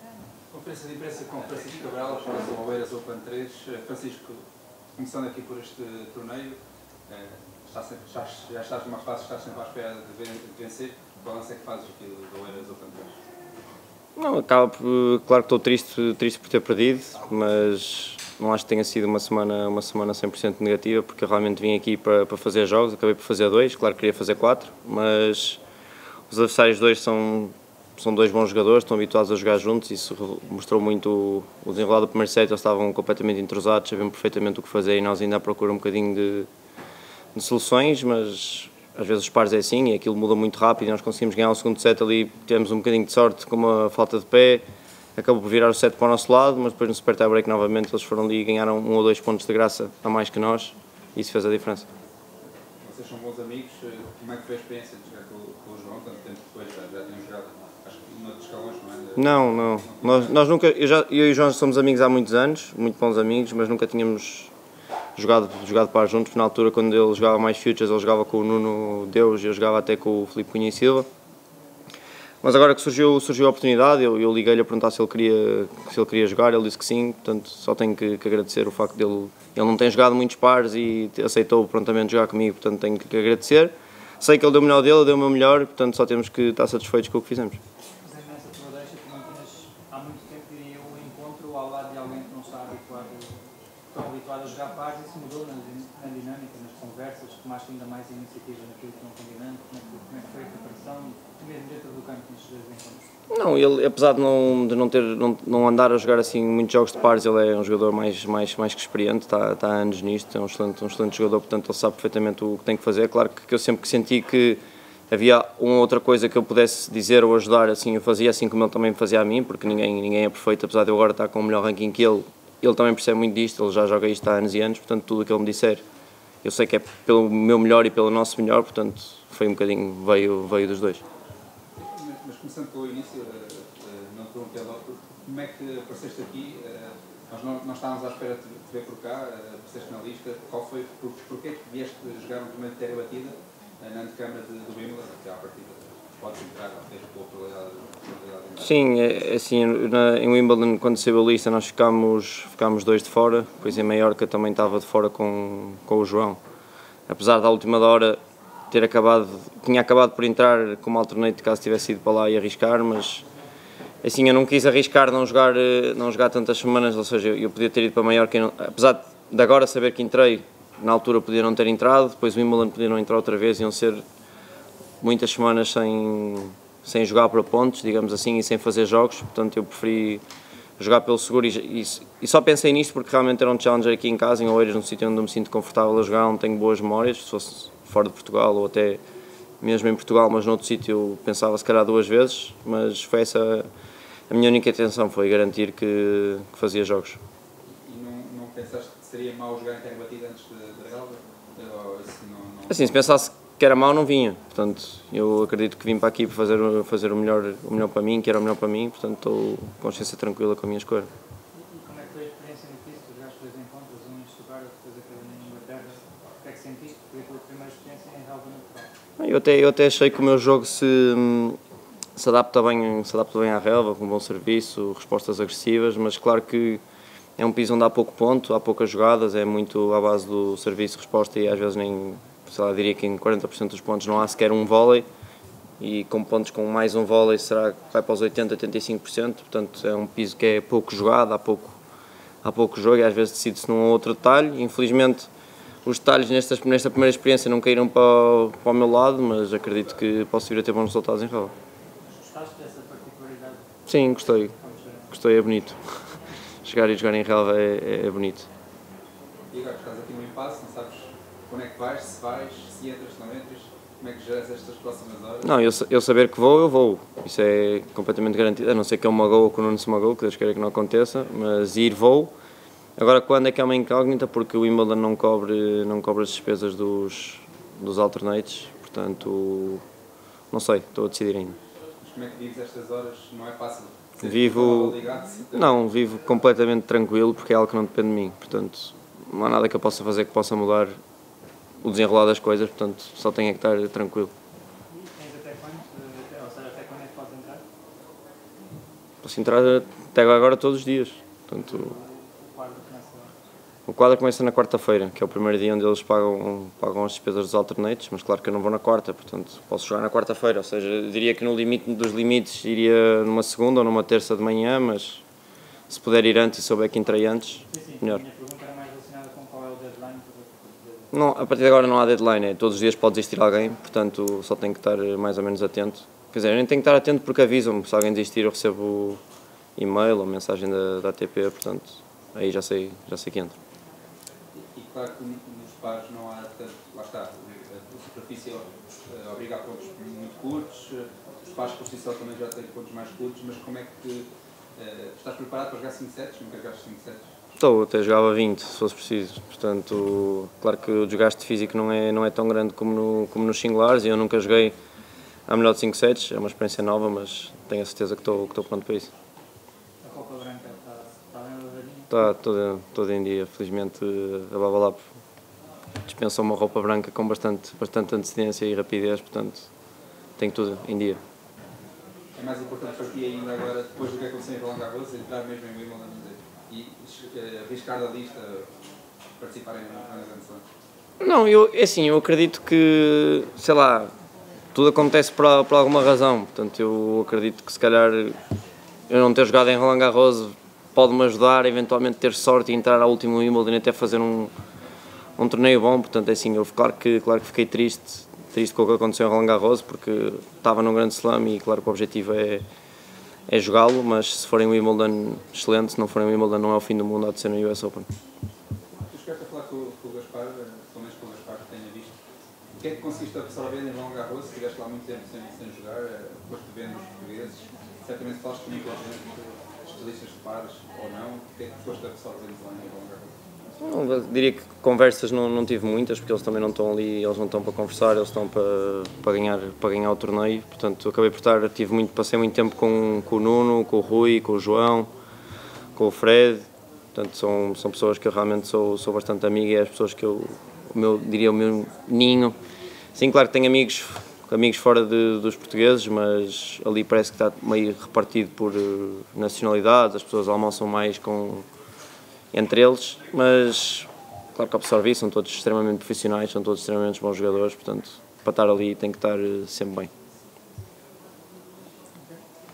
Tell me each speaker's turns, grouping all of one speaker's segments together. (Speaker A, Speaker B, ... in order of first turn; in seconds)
Speaker A: 0.5-4.4, 5.0-13.2, 52.8-60.4, 131.8-148.7, 197.7-203.0, 259.5-265.5, 282.0-285.9, 334.6-347.3, 372.4-378.7, 379.4-380.6, 409.1-412.2, 412.8-423.4
Speaker B: 14.2-25.6, 26.3-36.5, 37.4-44.6, 45.2-51.9, 59.2-64.5, 65.2-71.1, 72.4-87.6, 103.3-125.8, 126.4-131.0, 148.6-156.4, 157.1-158.2, 158.7-163.3, 164.0-174.0, 175.0-180.2, 180.8-189.0, 189.6-193.7, 194.3-197.2, 202.7-211.1, 219.2-221.6, 222.2-226.8, 227.4-235.1, 235.8-241.8, 242.4-245.3, 245.8-251.5, 253.9-254.5, 255.1-255.8, 256.6-258.5, 265.4-272.3, 273.0-279.8, 280.5-281.6, 284.2-285.0, 285.5-291.0, 291.8-294.3, 299.2-301.9, 303.9-315.2, 315.9-318.2, 321.1-329.2, 329.8-333.6, 347.6-354.8, 355.5-359.1, 362.1-365.1, 366.1-369.7, 370.4-371.2, 381.2-384.1, 384.7-388.4, 389.1-394.5, 395.4-402.6, 403.5-408.1, 423.8-435.1, 436.0-442.6, 443.1-451.7, 452.5-460.1
Speaker C: 88.0-103.0, 211.5-218.9, 252.0-255.2, 294.9-297.6, 301.5-303.3, 317.6-321.1, 360.0-362.1